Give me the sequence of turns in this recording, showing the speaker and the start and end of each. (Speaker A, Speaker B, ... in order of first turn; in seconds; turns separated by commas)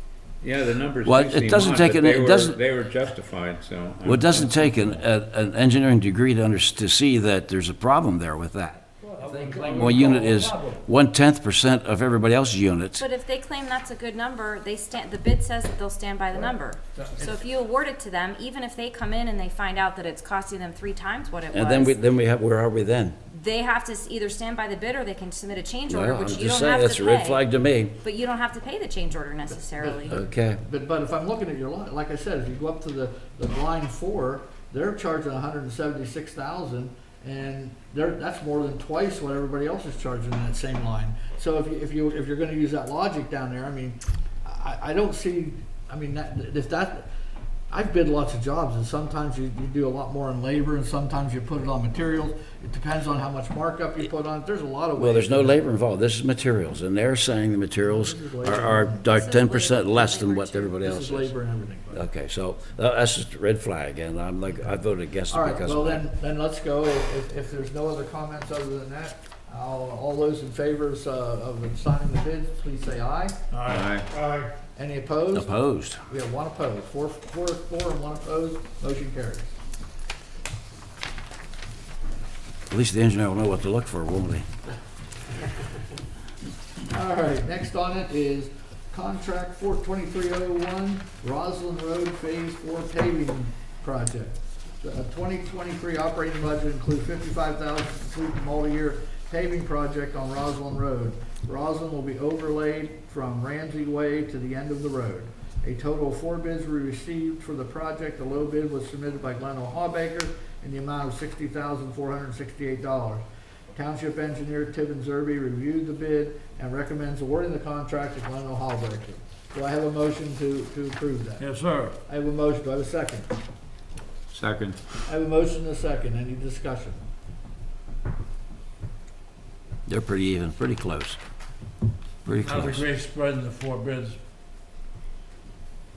Speaker A: 0.4-4.9, Speaker B: 1.0-2.6, Speaker B: 4.0-13.1, Speaker C: 9.0-10.8, Speaker D: 13.0-22.0, Speaker B: 21.5-23.2, Speaker D: 23.3-27.4, Speaker B: 25.9-28.0, Speaker D: 28.0-30.2, Speaker E: 29.8-47.1, Speaker B: 30.1-30.6, Speaker E: 47.7-55.6, Speaker B: 55.0-61.4, Speaker E: 57.8-59.1, Speaker D: 59.1-60.8, Speaker E: 60.8-62.1, Speaker B: 61.9-66.1, Speaker E: 65.3-73.4, Speaker C: 73.5-74.5, Speaker A: 73.7-74.1, Speaker E: 74.8-75.5, Speaker B: 75.3-76.0, Speaker E: 76.1-79.6, Speaker B: 82.7-84.5, Speaker E: 86.9-113.2, Speaker E: 113.7-121.5, Speaker C: 121.4-122.0, Speaker E: 122.1-123.3, Speaker A: 124.3-124.8, Speaker E: 125.1-127.0, Speaker B: 129.9-131.2, Speaker B: 132.2-132.9, Speaker C: 132.4-134.2